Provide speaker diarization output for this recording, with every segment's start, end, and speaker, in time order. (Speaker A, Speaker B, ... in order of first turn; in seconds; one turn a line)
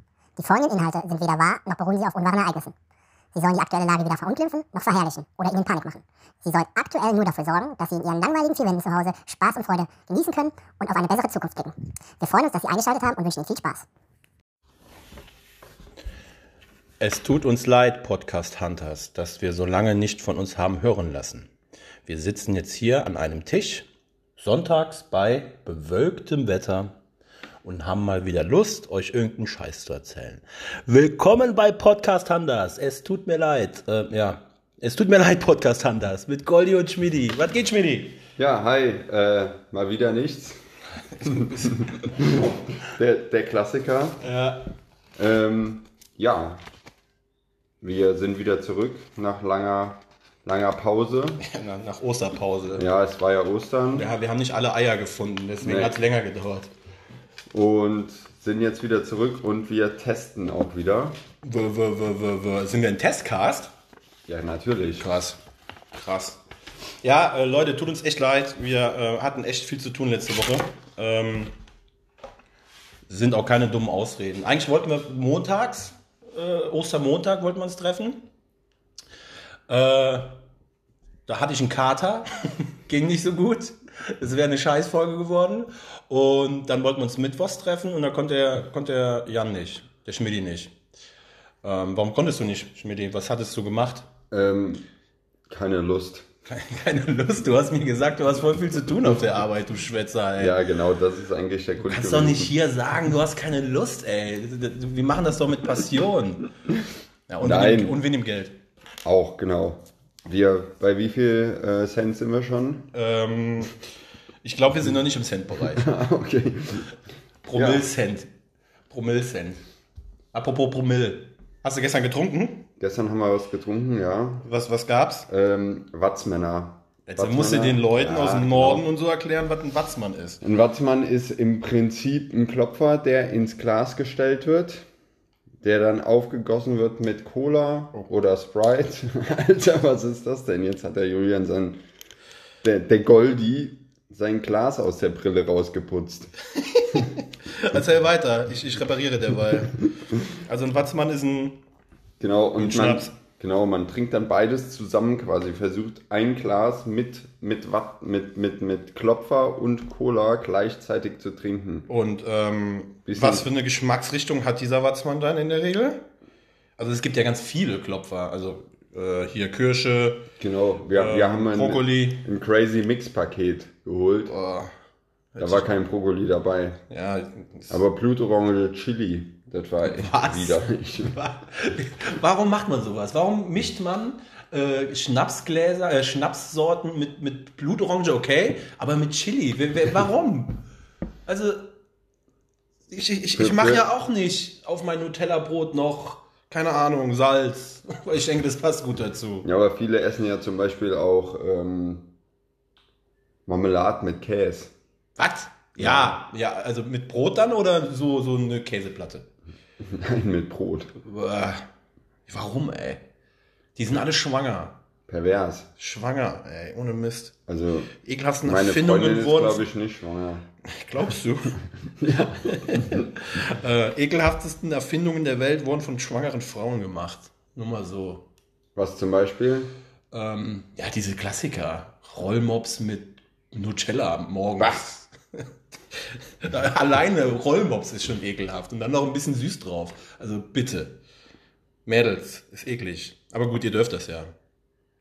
Speaker A: 0.3-2.7
Speaker A: 3.3-13.8
Speaker B: 17.0-21.5
Speaker B: 22.1-23.9
Speaker B: 24.4-26.9
Speaker B: 27.6-38.2
Speaker C: 38.4-40.6
Speaker B: 41.2-41.9
Speaker C: 41.2-44.2
Speaker B: 44.2-44.6
Speaker C: 45.2-46.6
Speaker C: 47.8-51.4
Speaker B: 51.4-52.9
Speaker C: 52.8-54.1
Speaker B: 53.9-56.7
Speaker C: 55.6-56.0
Speaker C: 57.5-61.2
Speaker B: 61.4-63.7
Speaker C: 64.3-65.1
Speaker B: 64.9-65.4
Speaker B: 65.9-66.4
Speaker B: 67.0-71.5
Speaker B: 73.1-78.2
Speaker B: 79.7-80.4
Speaker B: 81.3-90.7
Speaker B: 91.6-94.1
Speaker C: 94.3-94.8
Speaker C: 95.5-96.3
Speaker B: 96.5-100.6
Speaker C: 100.4-102.5
Speaker B: 101.8-106.5
Speaker B: 107.3-108.6
Speaker C: 107.4-108.0
Speaker C: 109.0-112.9
Speaker B: 112.9-113.8
Speaker B: 114.4-115.9
Speaker C: 115.8-116.9
Speaker B: 117.4-118.3
Speaker C: 117.5-117.9
Speaker B: 118.9-119.6
Speaker B: 120.3-122.7
Speaker C: 122.8-124.5
Speaker B: 124.4-125.3
Speaker C: 125.3-128.8
Speaker B: 127.1-130.4
Speaker C: 130.4-134.8
Speaker C: 135.6-141.8
Speaker C: 142.6-146.3
Speaker B: 146.5-151.6
Speaker C: 152.2-161.9
Speaker B: 152.6-153.1
Speaker B: 161.9-166.0
Speaker C: 163.1-163.5
Speaker B: 166.8-170.3
Speaker C: 170.4-174.3
Speaker B: 170.9-172.2
Speaker B: 174.3-174.7
Speaker B: 175.3-175.7
Speaker C: 175.4-176.8
Speaker B: 176.9-177.8
Speaker C: 177.7-181.2
Speaker B: 179.8-190.6
Speaker B: 191.2-191.7
Speaker B: 192.9-199.4
Speaker C: 193.3-193.8
Speaker C: 199.4-202.1
Speaker C: 203.4-204.7
Speaker B: 205.2-209.3
Speaker C: 205.8-206.2
Speaker C: 209.8-210.9
Speaker B: 210.9-211.7
Speaker B: 212.3-213.0
Speaker B: 213.8-214.8
Speaker C: 215.1-215.7
Speaker B: 215.8-217.3
Speaker C: 217.5-217.9
Speaker B: 218.0-219.7
Speaker C: 218.4-220.4
Speaker B: 220.6-221.6
Speaker C: 222.0-223.1
Speaker B: 222.4-228.2
Speaker C: 228.7-229.7
Speaker B: 230.1-241.0
Speaker C: 234.6-234.8
Speaker B: 241.8-244.3